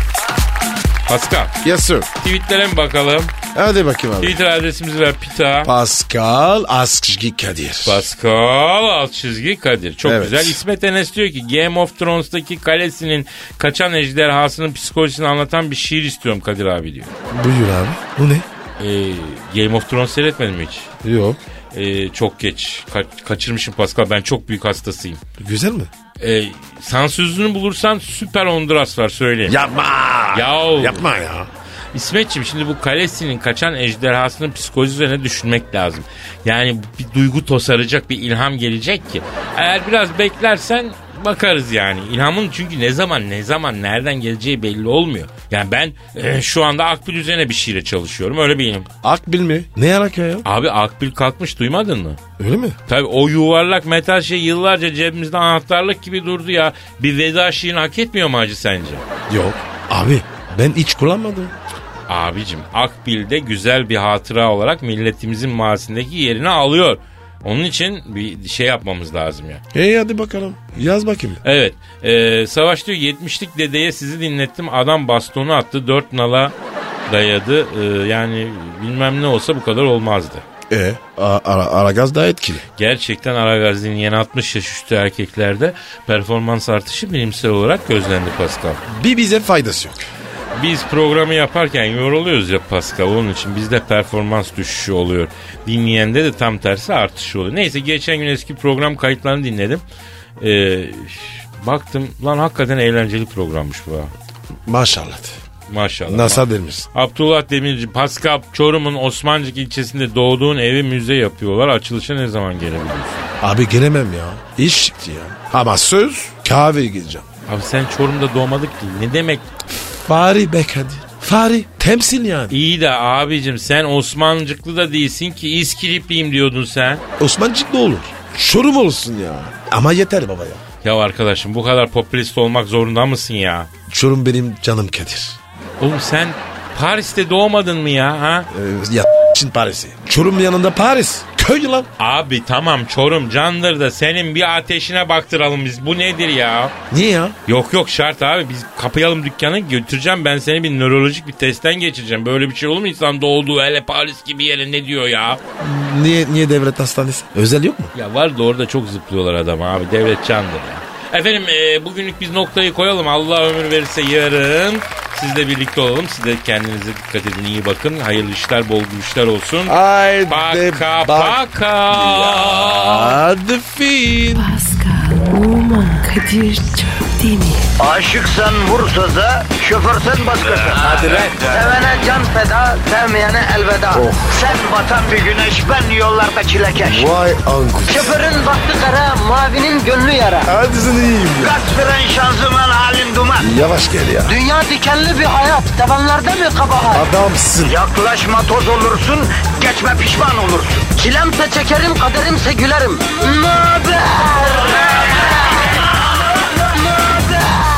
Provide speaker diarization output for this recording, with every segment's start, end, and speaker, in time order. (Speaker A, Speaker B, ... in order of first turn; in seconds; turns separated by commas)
Speaker A: 1.1-1.6, Speaker B: 1.6-2.1, Speaker A: 2.2-3.3, Speaker B: 3.5-4.4, Speaker A: 4.2-5.7, Speaker B: 5.6-8.0, Speaker A: 7.8-17.1, Speaker B: 10.0-10.6, Speaker B: 17.3-18.5, Speaker A: 18.8-20.9, Speaker B: 21.0-21.4, Speaker A: 21.7-25.2, Speaker B: 25.4-25.9, Speaker A: 26.2-29.6, Speaker B: 29.5-31.5, Speaker A: 30.3-31.1, Speaker A: 31.9-48.9, Speaker B: 49.0-50.5, Speaker A: 50.5-52.2, Speaker B: 52.4-52.8, Speaker A: 52.9-59.0, Speaker B: 59.3-61.5, Speaker A: 62.1-69.6, Speaker B: 69.7-71.4, Speaker A: 71.4-76.5, Speaker A: 77.1-80.5, Speaker B: 80.7-82.6, Speaker A: 82.8-88.8, Speaker B: 88.9-90.1, Speaker A: 90.5-99.8, Speaker A: 100.4-104.1, Speaker B: 104.7-105.4, Speaker A: 105.7-113.3, Speaker B: 106.1-106.9, Speaker B: 113.4-117.2, Speaker A: 117.5-119.4, Speaker B: 120.0-122.6, Speaker A: 122.5-127.0, Speaker B: 127.2-130.6, Speaker A: 130.8-133.7, Speaker B: 133.9-135.4, Speaker A: 135.8-138.5, Speaker B: 138.5-141.9, Speaker A: 142.0-146.7, Speaker B: 146.9-147.4, Speaker A: 147.5-155.4, Speaker B: 155.6-157.9, Speaker A: 157.9-169.8, Speaker B: 169.7-174.5, Speaker A: 170.3-173.2, Speaker C: 174.3-177.7, Speaker D: 177.8-187.1, Speaker B: 183.9-184.4, Speaker B: 186.8-188.2, Speaker D: 187.9-190.5, Speaker B: 190.4-191.6, Speaker D: 191.4-193.5, Speaker B: 193.4-194.4, Speaker D: 194.3-197.1, Speaker B: 196.9-197.8, Speaker D: 197.6-205.3, Speaker D: 207.0-207.3